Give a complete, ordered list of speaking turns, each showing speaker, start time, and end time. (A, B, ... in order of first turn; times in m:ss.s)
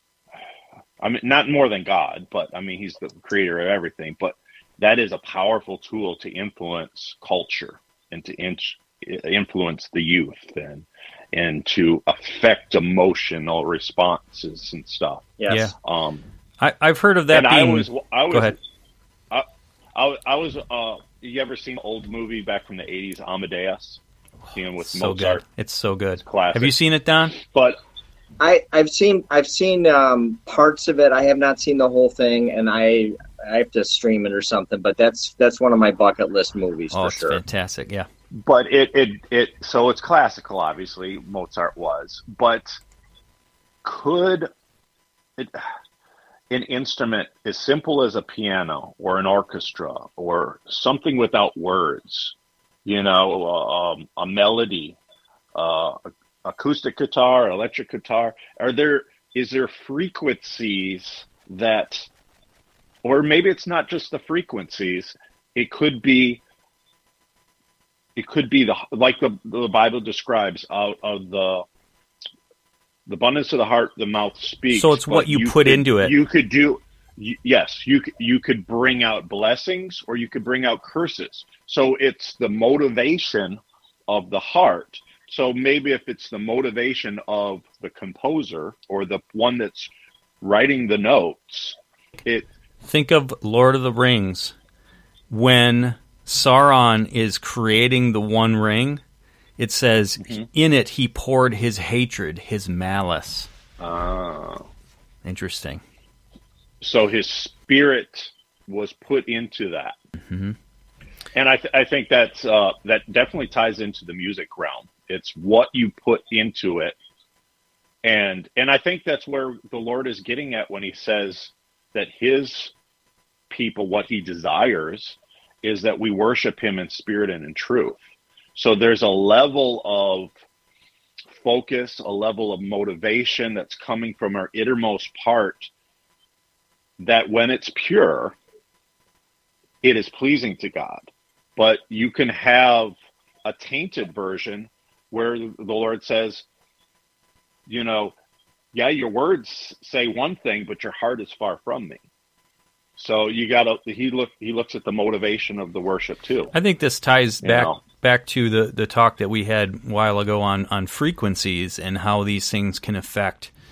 0:01.0-0:16.3 A
0:15.4-0:15.7 B
0:15.5-0:15.8 C
0:16.6-0:18.6 C
0:17.3-0:18.6 A
0:19.3-0:24.0 A
0:24.6-0:25.4 A
0:24.8-0:27.4 C
0:26.2-0:26.7 A
0:27.3-0:27.8 A
0:28.4-0:37.4 B
0:36.9-0:38.1 C
0:38.4-0:42.8 A
0:43.8-0:44.5 A
0:45.4-0:45.7 A
0:46.5-0:55.0 A
0:55.6-1:02.1 A
1:03.0-1:06.4 A
1:08.2-1:11.6 A
1:13.1-1:29.9 A
1:14.7-1:16.1 C
1:30.4-1:32.5 A
1:32.8-1:34.6 C
1:35.3-1:39.0 C
1:39.6-1:43.5 C
1:43.8-1:44.7 A
1:45.2-1:45.8 C
1:46.8-1:50.0 A
1:50.2-1:50.6 C
1:51.3-1:57.0 A
1:58.0-2:02.7 A
2:03.5-2:08.0 A
2:08.6-2:10.3 A
2:11.4-2:15.7 A
2:17.0-2:18.4 A
2:19.8-2:26.4 A
2:27.7-2:28.2 A
2:28.7-2:32.0 A
2:33.0-2:36.5 A
2:36.5-2:43.5 C
2:37.4-2:37.8 A